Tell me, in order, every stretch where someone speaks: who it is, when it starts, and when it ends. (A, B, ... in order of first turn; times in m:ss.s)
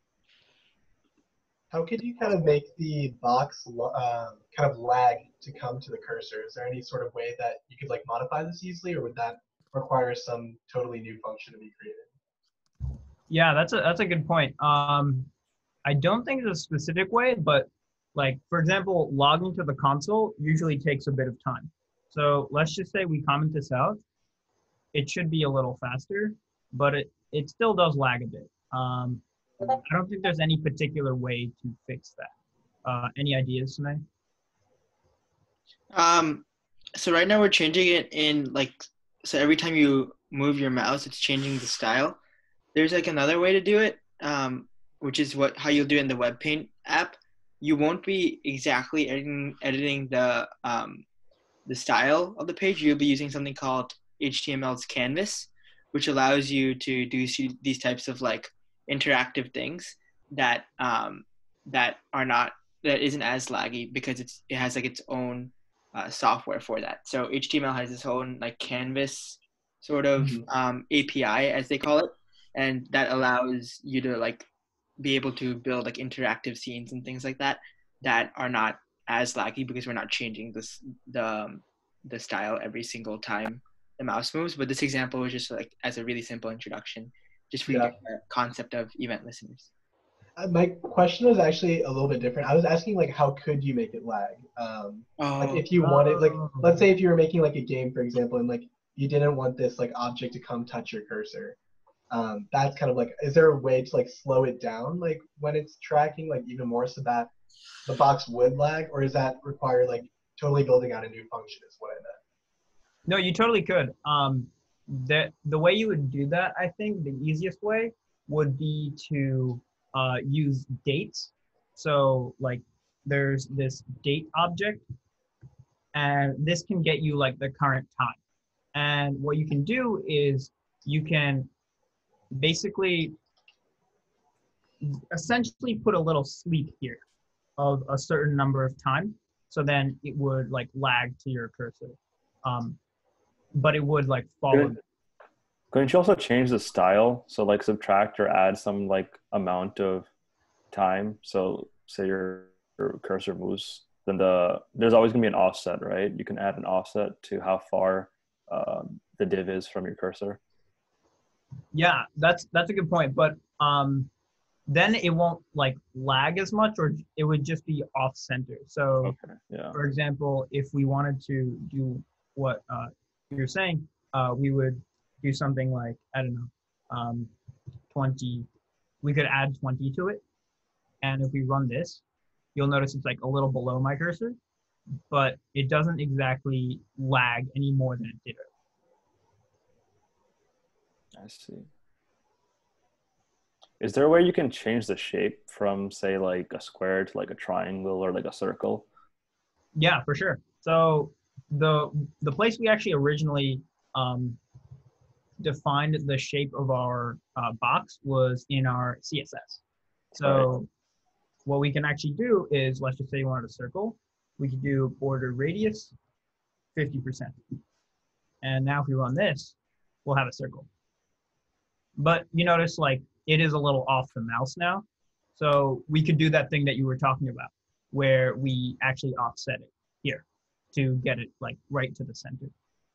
0:01.7-0:12.1 A
0:13.3-0:15.3 B
0:15.8-0:24.0 B
0:24.9-0:32.3 B
0:32.8-0:34.0 B
0:35.9-0:36.4 C
0:37.0-0:42.2 C
0:42.8-0:51.0 C
0:51.7-1:14.4 C
1:10.2-1:10.4 A
1:15.0-1:29.7 C
1:27.7-1:27.9 A
1:30.4-1:41.6 A
1:35.2-1:35.7 C
1:35.8-1:36.8 B
1:42.1-1:47.3 A
1:47.9-1:52.2 A
1:53.1-2:04.8 B
2:06.0-2:08.2 B
2:08.8-2:11.5 B
2:12.3-2:13.1 B
2:14.8-2:17.0 B
2:17.6-2:22.8 B
2:23.6-2:24.8 B
2:25.7-2:30.1 D
2:30.7-2:40.4 D
2:41.7-2:44.1 B
2:44.7-2:49.2 B
2:49.0-2:49.8 D
2:49.7-2:57.3 B
2:57.9-2:58.5 B
2:59.0-3:00.2 B
3:01.0-3:02.0 B
3:02.6-3:04.4 B
3:05.1-3:08.5 B
3:11.1-3:11.7 D
3:13.8-3:18.9 D
3:19.8-3:24.4 B
3:25.4-3:29.6 B
3:30.2-3:30.7 B
3:30.2-3:30.5 D
3:31.5-3:35.9 B
3:36.8-3:37.4 B
3:38.4-3:40.7 B
3:42.0-3:44.8 B
3:45.4-3:52.5 B